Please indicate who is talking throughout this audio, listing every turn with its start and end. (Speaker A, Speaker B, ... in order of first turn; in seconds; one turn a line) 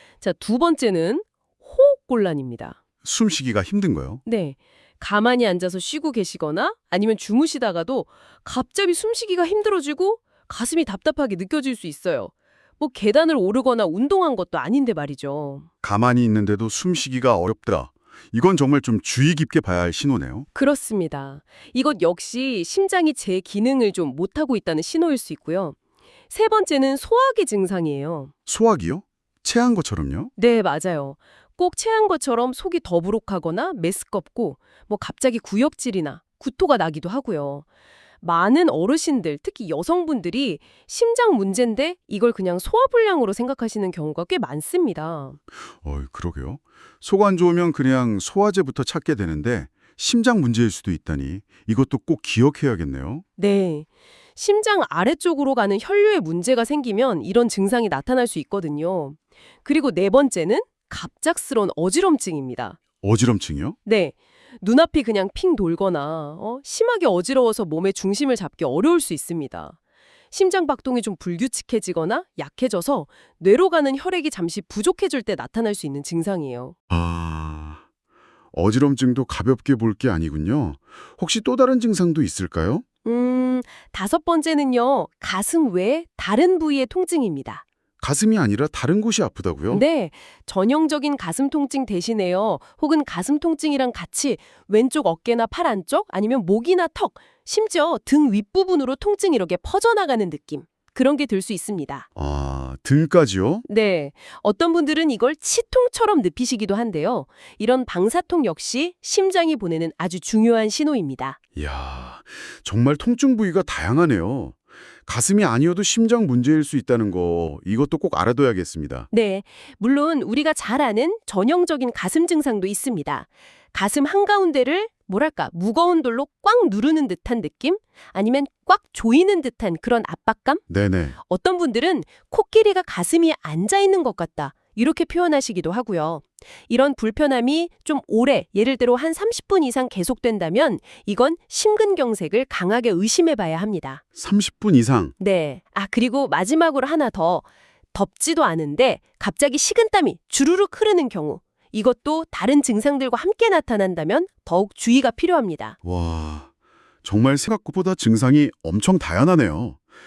Speaker A: 0.2-2.8
Speaker B: 3.0-4.2
Speaker A: 4.2-15.7
Speaker B: 15.8-20.5
Speaker A: 20.6-25.8
Speaker A: 26.3-28.3
Speaker B: 28.5-30.3
Speaker A: 30.4-37.6
Speaker A: 38.2-45.4
Speaker B: 45.8-53.2
Speaker A: 53.4-62.8
Speaker B: 63.0-63.8
Speaker A: 63.9-69.8
Speaker A: 70.3-76.7
Speaker B: 76.9-77.8
Speaker B: 78.5-82.8
Speaker A: 83.0-87.6
Speaker B: 88.0-89.8
Speaker A: 89.7-102.1
Speaker B: 102.2-103.7
Speaker A: 103.7-111.4
Speaker B: 111.6-119.1
Speaker A: 119.1-130.6
Speaker B: 130.7-131.2
Speaker A: 131.2-144.0
Speaker B: 144.2-145.1
Speaker A: 145.2-155.8
Speaker B: 155.8-156.5
Speaker B: 157.0-159.8